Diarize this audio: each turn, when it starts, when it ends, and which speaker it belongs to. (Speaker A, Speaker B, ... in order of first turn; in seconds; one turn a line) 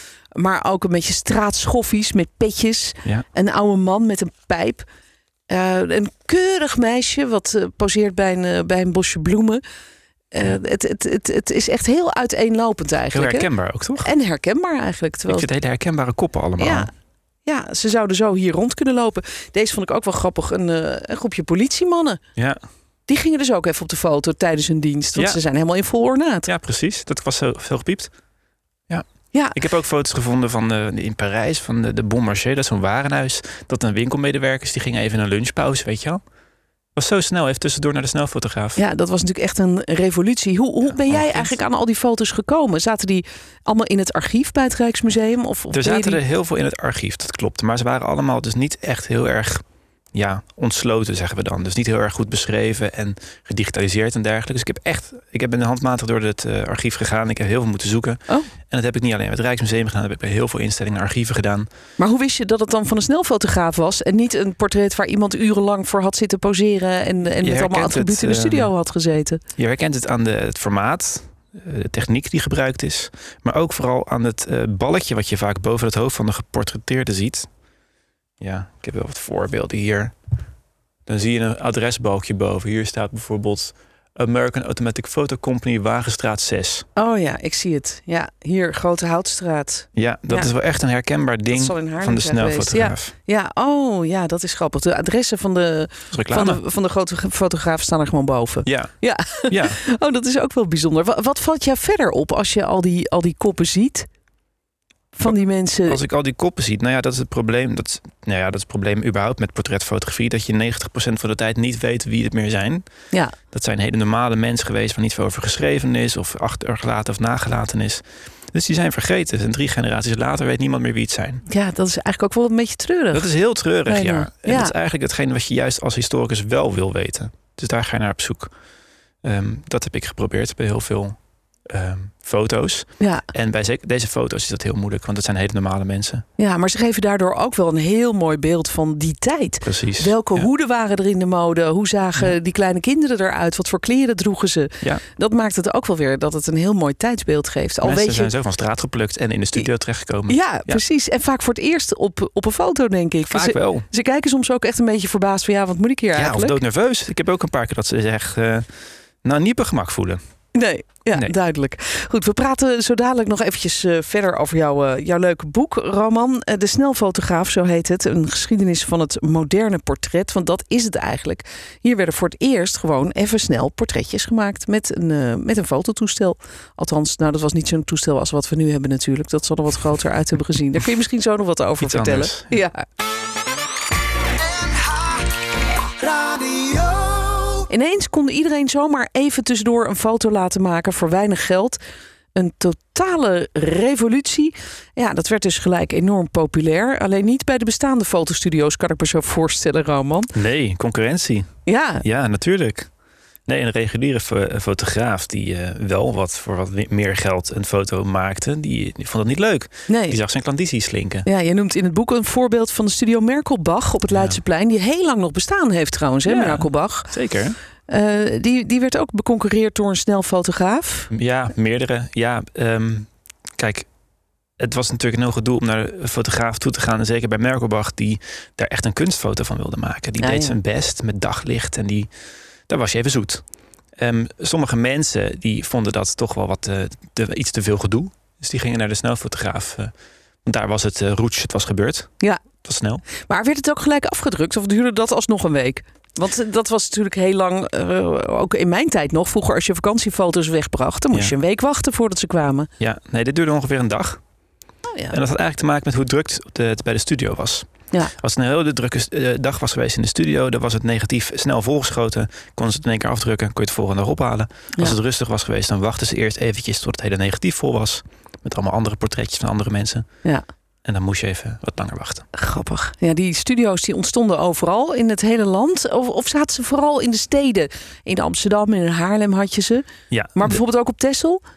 Speaker A: 0.3-4.9
Speaker A: 5.5-9.6
Speaker A: 10.3-13.5
Speaker B: 13.1-14.1
Speaker A: 14.0-15.5
Speaker B: 15.3-16.9
Speaker A: 16.6-16.9
Speaker A: 17.4-22.2
Speaker A: 23.1-26.5
Speaker B: 26.5-28.1
Speaker A: 29.3-29.6
Speaker B: 29.6-36.2
Speaker B: 37.0-38.8
Speaker A: 38.8-46.2
Speaker B: 40.9-41.6
Speaker B: 45.7-49.6
Speaker B: 50.1-58.2
Speaker B: 58.7-61.7
Speaker A: 62.0-69.4
Speaker B: 67.4-68.7
Speaker B: 69.6-77.5
Speaker B: 78.4-80.1
Speaker B: 81.1-86.9
Speaker A: 87.0-90.5
Speaker B: 90.0-93.1
Speaker A: 91.5-104.1
Speaker B: 96.1-96.6
Speaker B: 98.7-98.9
Speaker B: 99.5-99.8
Speaker A: 105.1-106.0
Speaker B: 105.9-112.8
Speaker B: 113.5-121.4
Speaker A: 121.5-123.3
Speaker B: 123.1-128.5
Speaker A: 123.9-124.7
Speaker B: 129.2-131.2
Speaker B: 131.7-136.2
Speaker A: 133.0-133.3
Speaker A: 136.4-148.3
Speaker B: 139.6-140.5
Speaker B: 147.8-150.8
Speaker A: 150.3-156.6
Speaker B: 153.3-153.9
Speaker B: 156.2-158.7
Speaker B: 159.2-160.2
Speaker A: 160.5-182.8
Speaker B: 181.8-182.6
Speaker A: 186.2-191.8
Speaker A: 192.3-200.3
Speaker B: 200.3-201.5
Speaker A: 201.7-202.1
Speaker B: 202.0-202.9
Speaker B: 203.5-211.3
Speaker A: 209.9-210.2
Speaker A: 211.2-217.1
Speaker B: 214.1-214.4
Speaker B: 216.3-217.6
Speaker A: 217.9-221.1
Speaker B: 221.1-223.9
Speaker B: 224.6-232.1
Speaker A: 230.2-230.6
Speaker B: 232.7-233.4
Speaker B: 234.0-239.9
Speaker B: 240.4-242.1
Speaker B: 242.6-243.0
Speaker A: 243.2-252.7
Speaker B: 252.8-254.2
Speaker A: 254.9-255.2
Speaker B: 255.1-270.1
Speaker B: 270.9-272.2
Speaker A: 272.3-281.4
Speaker B: 280.1-280.6